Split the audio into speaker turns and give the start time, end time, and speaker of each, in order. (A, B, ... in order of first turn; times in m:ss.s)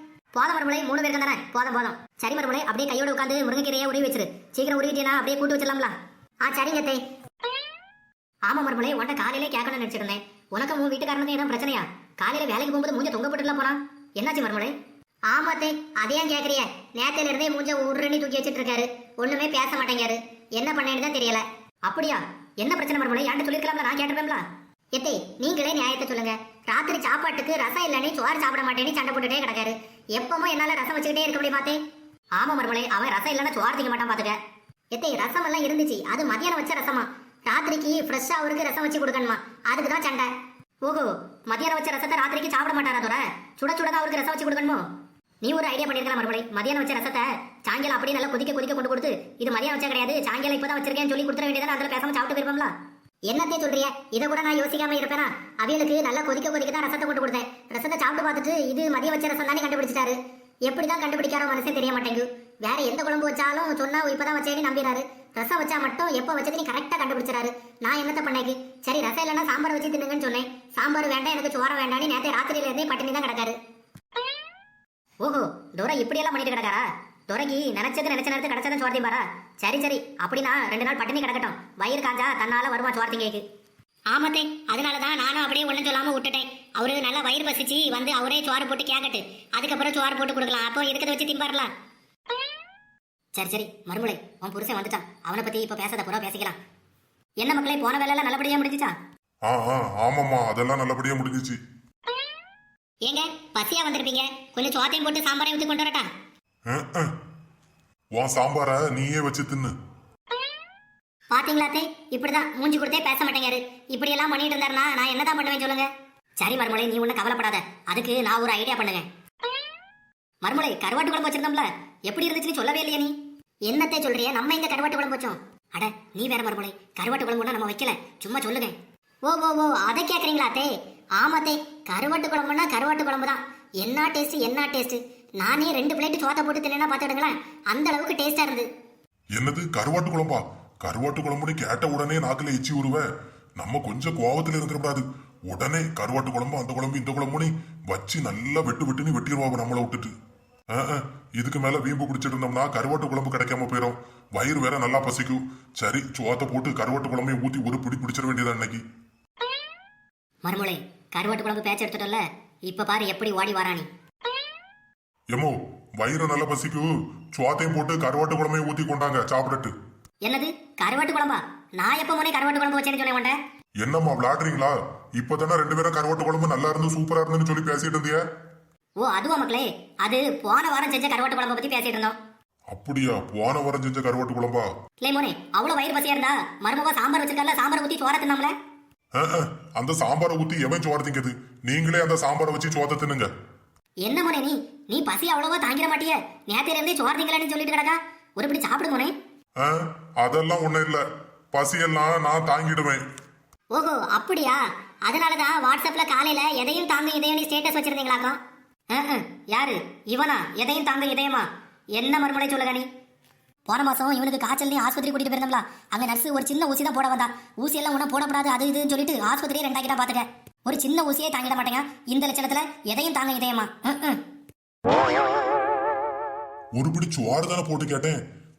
0:00.3-0:07.0 A
0:08.5-0:14.7 A
0:15.3-0:24.4 A
0:24.9-0:31.8 A
0:32.4-0:34.4 A
0:34.9-0:40.3 A
0:40.8-0:44.8 A
0:45.4-0:52.7 A
0:53.3-1:13.6 A
1:15.2-1:23.4 A
1:24.1-1:31.7 A
1:33.3-1:36.6 A
1:37.4-1:38.9 A
1:39.5-1:41.6 B
1:43.0-1:46.1 A
1:46.7-1:47.1 B
1:48.2-1:49.7 B
1:51.3-1:59.1 A
2:00.4-2:03.1 A
2:03.7-2:08.8 A
2:09.3-2:18.7 A
2:19.4-2:23.0 B
2:23.6-2:30.1 B
2:30.7-2:38.8 B
2:40.4-2:43.9 A
2:45.3-2:49.7 B
2:50.2-2:53.4 A
2:53.8-2:58.2 B
2:59.0-3:02.1 A
3:02.7-3:04.7 B
3:05.0-3:08.5 A
3:09.2-3:13.3 B
3:14.0-3:19.1 A
3:19.6-3:23.0 B
3:23.7-3:28.4 A
3:28.9-3:32.9 A
3:33.7-3:44.2 A
3:46.8-3:48.2 B